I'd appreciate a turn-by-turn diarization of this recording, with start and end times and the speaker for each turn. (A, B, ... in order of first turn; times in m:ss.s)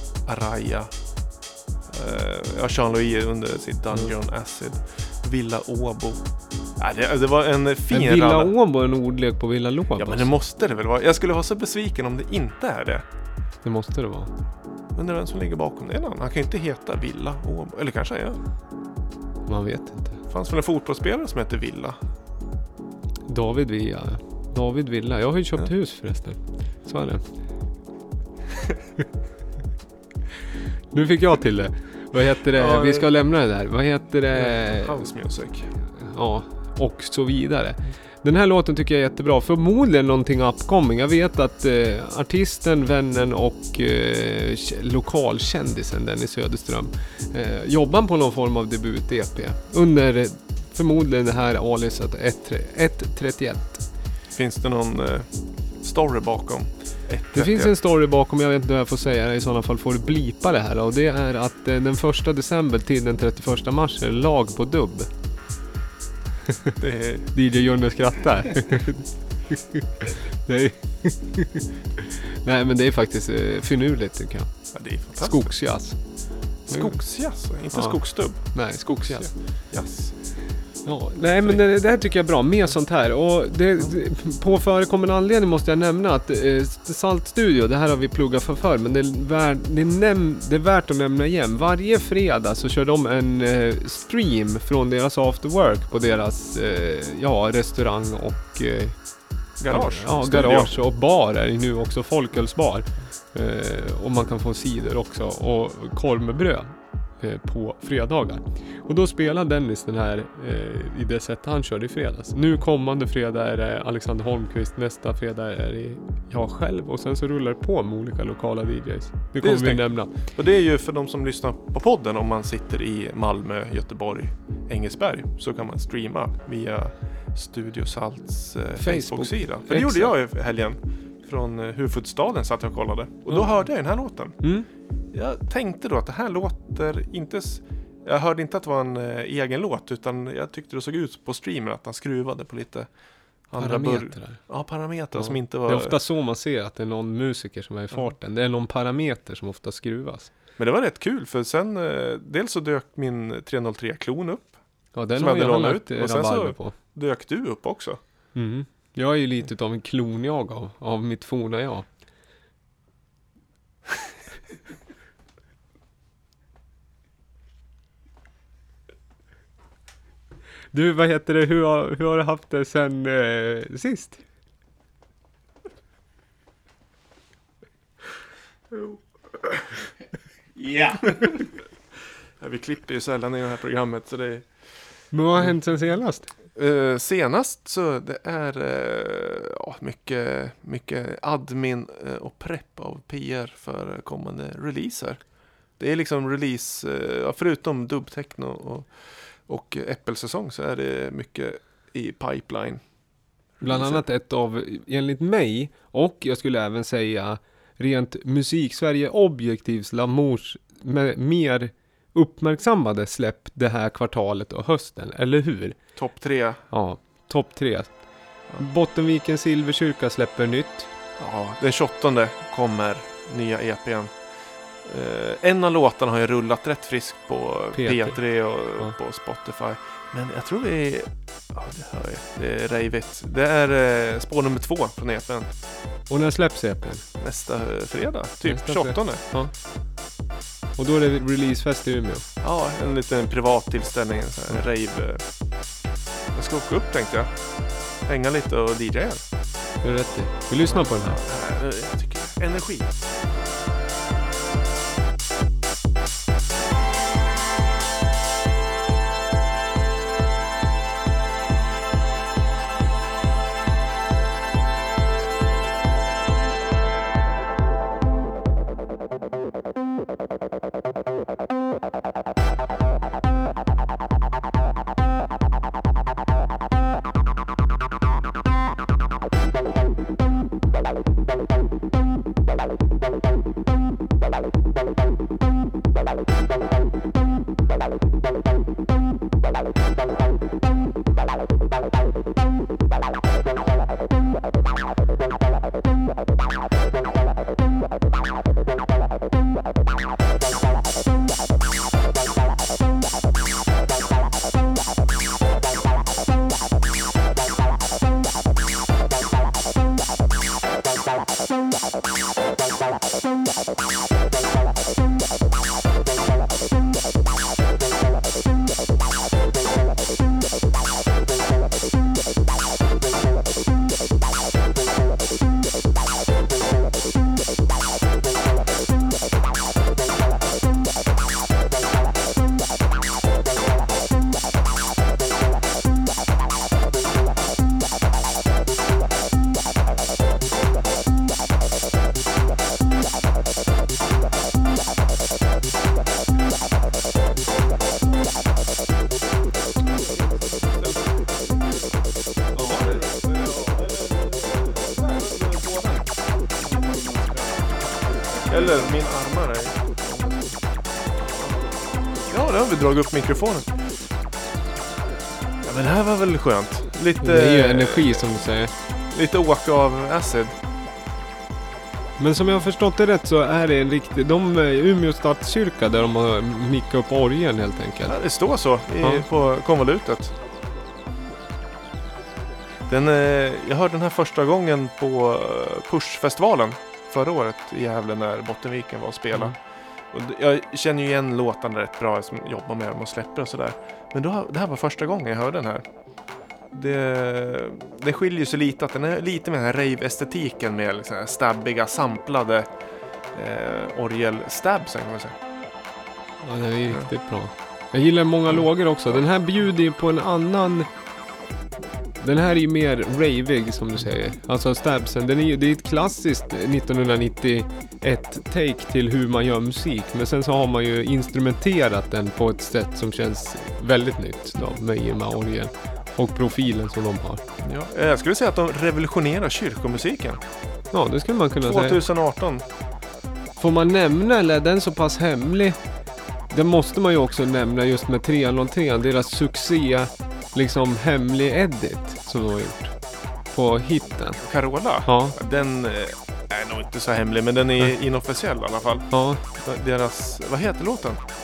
0:00.2-0:00.9 A
0:01.9-0:06.2 A
0:06.8-0:08.6 A
0:07.9-0:10.3 B
0:10.0-0:13.0 A
0:13.6-0:14.3 B
0:14.9-0:18.4 A
0:19.4-0:20.2 B
0:20.3-0:22.0 A
0:23.3-0:27.2 B
0:30.9-0:35.1 B
0:32.5-0:33.1 A
0:34.3-0:35.7 A
0:35.9-0:53.8 B
0:54.3-0:57.7 A
0:57.3-1:05.1 B
1:06.8-1:07.3 A
1:07.3-1:17.0 B
1:14.7-1:15.6 A
1:16.7-1:20.2 A
1:17.7-1:19.3 B
1:20.8-2:00.1 B
1:39.6-1:40.7 A
1:59.4-2:14.5 A
2:08.8-2:10.1 B
2:14.4-2:14.7 B
2:15.1-2:22.9 A
2:23.5-2:26.0 A
2:23.5-2:24.4 B
2:25.1-2:30.3 B
2:30.6-2:34.6 A
2:34.9-2:36.7 B
2:35.1-2:38.0 A
2:38.3-2:41.8 B
2:50.7-2:54.2 B
3:00.6-3:01.6 C
3:02.4-3:04.7 A
3:05.1-3:06.3 B
3:06.5-3:15.2 A
3:15.8-3:22.8 A
3:23.6-3:24.0 A
3:23.6-3:35.8 B
3:36.0-3:36.6 A
3:36.7-3:40.9 B
3:41.2-3:44.1 A
3:44.8-3:55.6 A
3:47.7-3:48.2 B
3:56.1-3:57.0 B
3:57.2-3:59.2 A
3:58.4-3:59.5 B
4:00.8-4:02.2 B
4:02.4-4:05.3 A
4:06.3-4:09.2 A
4:09.8-4:11.2 B
4:10.6-4:13.2 A
5:52.5-5:59.0 C
5:52.6-5:53.7 A
5:58.5-6:00.2 A
6:00.2-6:00.5 C
6:02.3-6:03.9 A
6:05.6-6:08.3 A
6:07.2-6:08.7 B
6:09.1-6:10.6 A
6:12.2-6:18.2 B
6:18.0-6:20.4 A
6:22.9-6:29.6 A
6:30.1-6:35.8 A
6:36.7-6:42.7 A
6:43.3-6:45.4 A
6:46.4-6:50.9 B
6:52.2-7:07.4 B
7:07.6-7:10.4 A
7:10.9-7:12.0 B
7:11.6-7:12.6 A
7:13.6-7:15.8 B
7:16.5-7:22.9 B
7:23.5-7:24.4 B
7:24.4-7:31.2 A
7:25.0-7:25.4 B
7:29.1-7:29.4 B